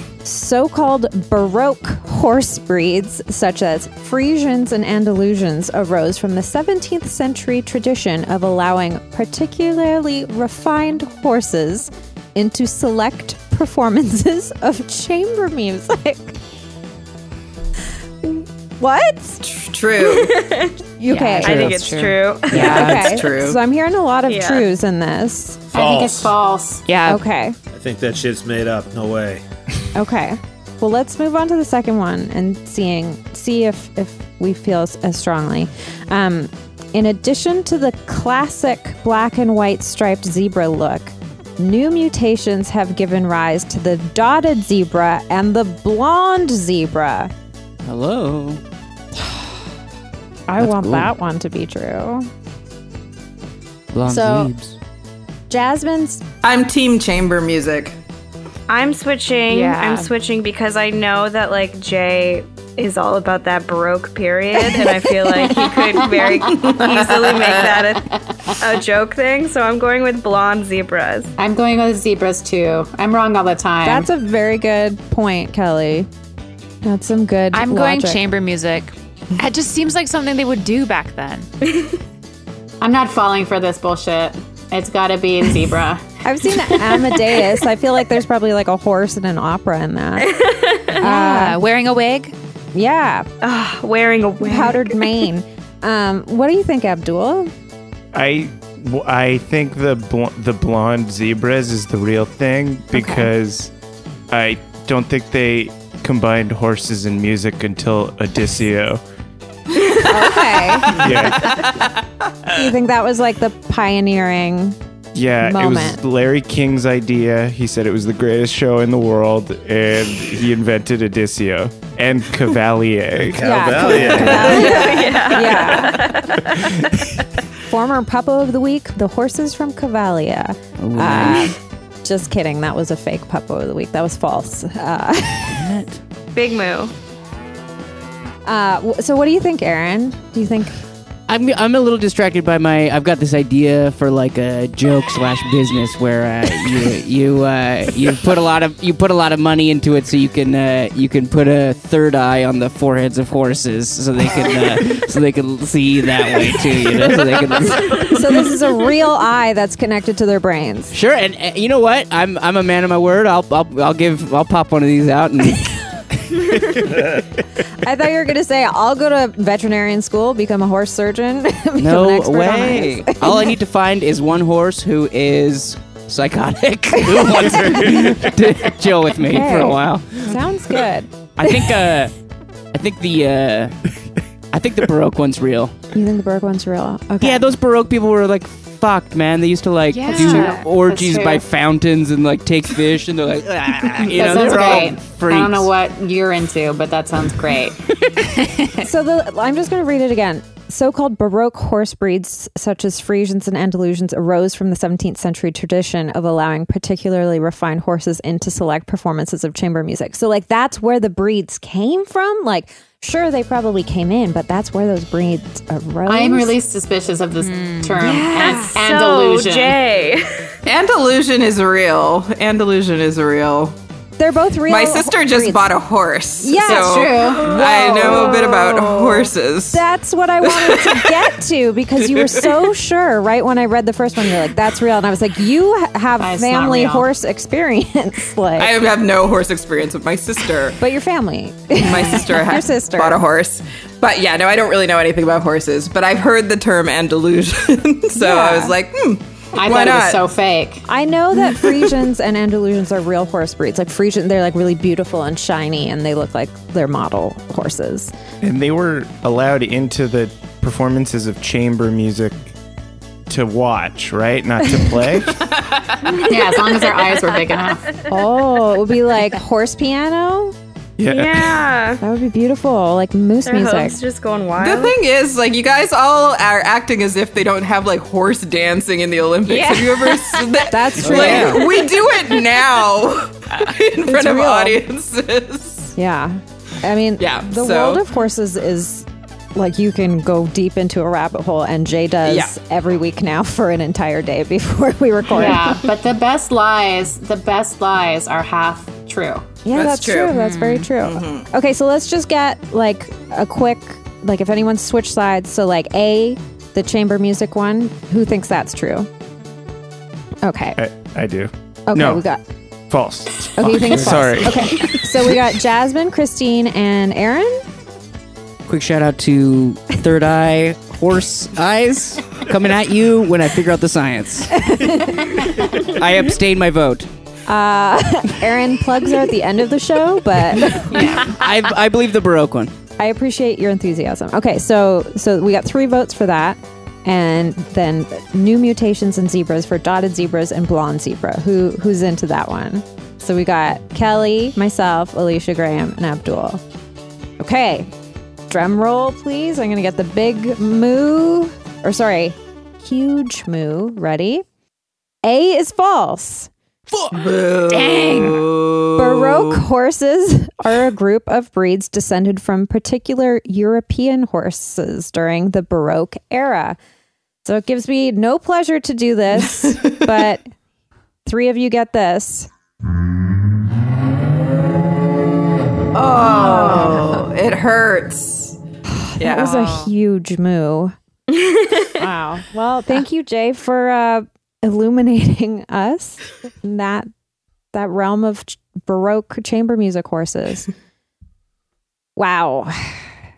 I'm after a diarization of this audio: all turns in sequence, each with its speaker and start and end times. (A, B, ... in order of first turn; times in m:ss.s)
0:00.2-0:16.4 A
0:18.2-0:19.4 A
0:19.4-0:20.5 B
0:20.0-0:20.8 C
0:21.0-0:21.9 A
0:21.0-0:22.6 D
0:21.4-0:23.2 C
0:22.5-0:25.6 A
0:22.5-0:23.6 B
0:24.3-0:24.7 C
0:25.7-0:26.8 E
0:25.7-0:26.3 F
0:26.9-0:27.2 D
0:27.1-0:27.6 A
0:27.7-0:29.4 F
0:29.9-0:47.3 A
0:47.8-0:48.6 G
0:49.2-0:49.4 A
0:50.5-0:52.3 A
0:50.6-0:51.1 G
0:53.9-0:54.8 G
0:54.0-0:54.5 A
0:55.5-0:56.2 A
0:56.4-0:58.0 B
0:58.7-1:11.3 C
0:59.5-1:00.1 D
1:05.8-1:06.3 E
1:06.5-1:07.7 B
1:11.4-1:14.1 E
1:13.8-1:16.1 A
1:16.8-1:18.2 A
1:17.5-1:21.5 D
1:21.7-1:22.0 C
1:22.8-1:26.1 E
1:26.2-1:30.3 A
1:30.2-1:31.0 C
1:31.0-1:31.6 A
1:31.0-1:32.3 D
1:32.7-1:33.3 A
1:33.4-1:35.3 C
1:34.4-1:37.5 A
1:38.1-1:43.7 H
1:42.9-1:43.3 A
1:44.3-1:49.0 H
1:50.0-1:51.3 A
1:50.9-1:51.6 H
1:51.6-1:51.9 B
1:52.5-1:54.8 A
1:55.2-2:04.7 H
1:55.4-1:56.0 A
2:03.3-2:04.7 F
2:03.4-2:06.2 A
2:04.3-2:06.7 C
2:07.6-2:15.7 A
2:10.8-2:11.5 G
2:15.6-2:16.0 G
2:16.4-2:16.9 C
2:18.4-2:20.8 A
2:21.3-2:38.2 G
2:37.9-2:41.0 A
2:40.9-2:45.7 G
2:47.8-2:53.6 A
2:51.8-3:00.4 G
2:57.0-2:57.8 A
2:59.2-3:01.9 A
3:01.4-3:02.1 G
3:02.7-3:03.8 G
3:04.5-3:05.7 G
3:05.9-3:07.5 A
3:07.2-3:15.7 G
3:09.9-3:10.6 D
3:10.1-3:11.4 E
3:14.1-3:17.8 E
3:14.2-3:14.8 H
3:18.2-3:18.8 D
3:18.8-3:36.6 A
3:36.1-3:39.8 E
3:37.4-3:38.1 D
3:38.0-3:38.8 A
3:38.7-3:40.4 C
3:40.6-3:43.8 B
3:44.2-3:45.7 A
3:44.7-3:49.8 B
3:46.4-3:48.6 A
3:46.6-3:47.5 E
3:47.5-3:49.2 C
3:49.7-3:58.8 A
3:50.4-3:51.2 B
3:52.0-3:52.5 B
3:56.2-3:57.1 E
3:58.6-4:00.8 B
4:00.8-4:03.2 A
4:01.8-4:10.2 B
4:08.2-4:08.8 A
4:09.6-4:10.9 E
4:10.9-4:18.1 A
4:18.4-4:22.5 H
4:23.3-4:25.4 H
4:26.2-4:27.9 E
4:28.1-4:30.6 A
4:31.0-4:31.6 H
4:31.1-4:32.0 C
4:32.0-4:34.0 A
4:33.4-4:35.0 C
4:34.6-4:45.9 B
4:39.5-4:39.8 D
4:39.5-4:41.7 A
4:41.0-4:41.6 G
4:44.1-4:44.8 A
4:46.0-4:55.8 A
4:47.2-4:48.0 B
4:52.2-4:52.5 B
4:55.3-4:59.5 E
4:59.6-5:09.1 A
4:59.7-5:00.4 B
5:00.3-5:00.9 D
5:01.0-5:01.5 B
5:10.4-5:10.8 A
5:10.8-5:12.2 H
5:11.9-5:12.4 A
5:12.9-5:15.0 H
5:13.6-5:17.6 A
5:18.7-5:24.6 G
5:24.6-5:25.4 A
5:25.8-5:27.1 G
5:27.5-5:31.3 A
5:30.6-5:32.7 G
5:31.0-5:31.3 D
5:33.0-5:46.6 A
5:47.4-5:47.9 A
5:48.5-5:54.4 A
5:55.2-5:56.5 A
5:57.1-5:59.6 B
5:57.7-5:58.5 D
5:59.0-6:06.8 A
6:07.4-6:10.4 A
6:09.4-6:10.1 B
6:11.2-6:12.5 A
6:15.9-6:18.6 B
6:16.2-6:17.2 A
6:19.0-6:21.0 A
6:19.2-6:19.7 B
6:19.4-6:19.8 D
6:21.4-6:21.9 C
6:21.9-6:27.1 A
6:27.7-6:30.7 A
6:32.2-6:33.0 A